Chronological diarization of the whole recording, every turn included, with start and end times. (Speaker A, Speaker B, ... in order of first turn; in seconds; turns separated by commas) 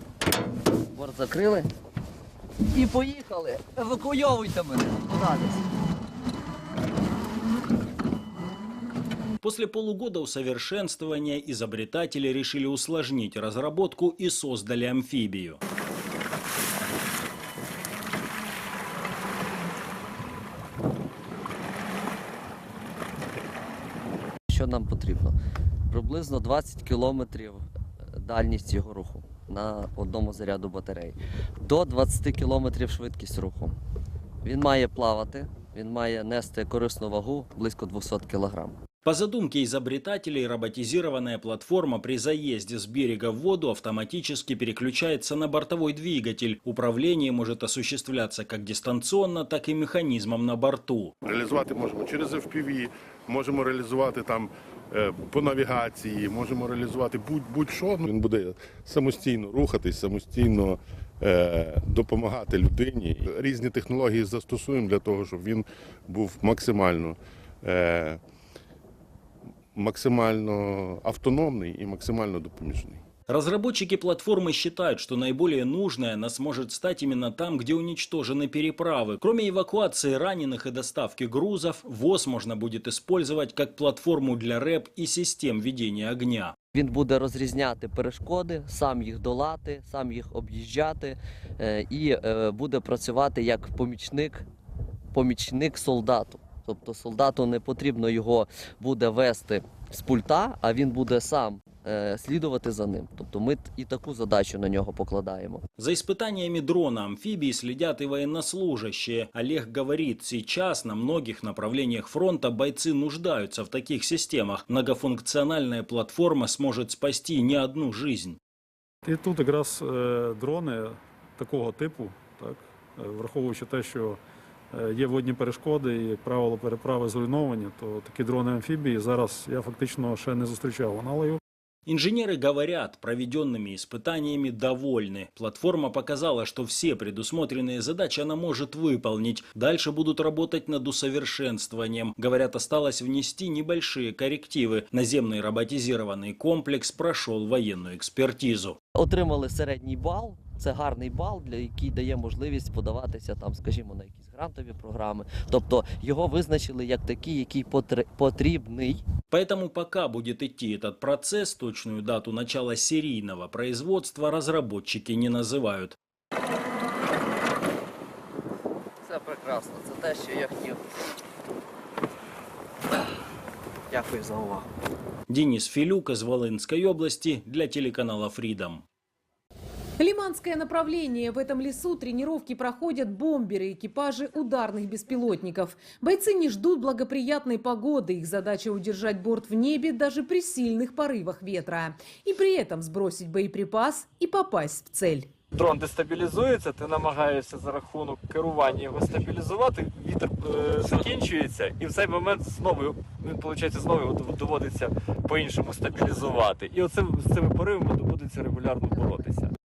Speaker A: 0.9-1.7, Speaker A: 2.7-5.6, Speaker B: 9.4-15.6, Speaker A: 24.5-25.3, Speaker A: 25.9-27.6, Speaker A: 28.2-33.8, Speaker A: 34.4-38.8, Speaker B: 39.0-51.1, Speaker C: 51.2-68.2, Speaker C: 69.7-73.0, Speaker B: 73.3-86.5, Speaker A: 86.7-94.5, Speaker A: 95.1-105.6, Speaker B: 105.8-118.4, Speaker D: 119.0-124.2, Speaker D: 124.7-131.4, Speaker B: 131.9-148.8, Speaker A: 148.9-159.1, Speaker B: 159.3-165.9, Speaker B: 175.3-178.8, Speaker E: 180.0-195.3, Speaker F: 195.5-209.5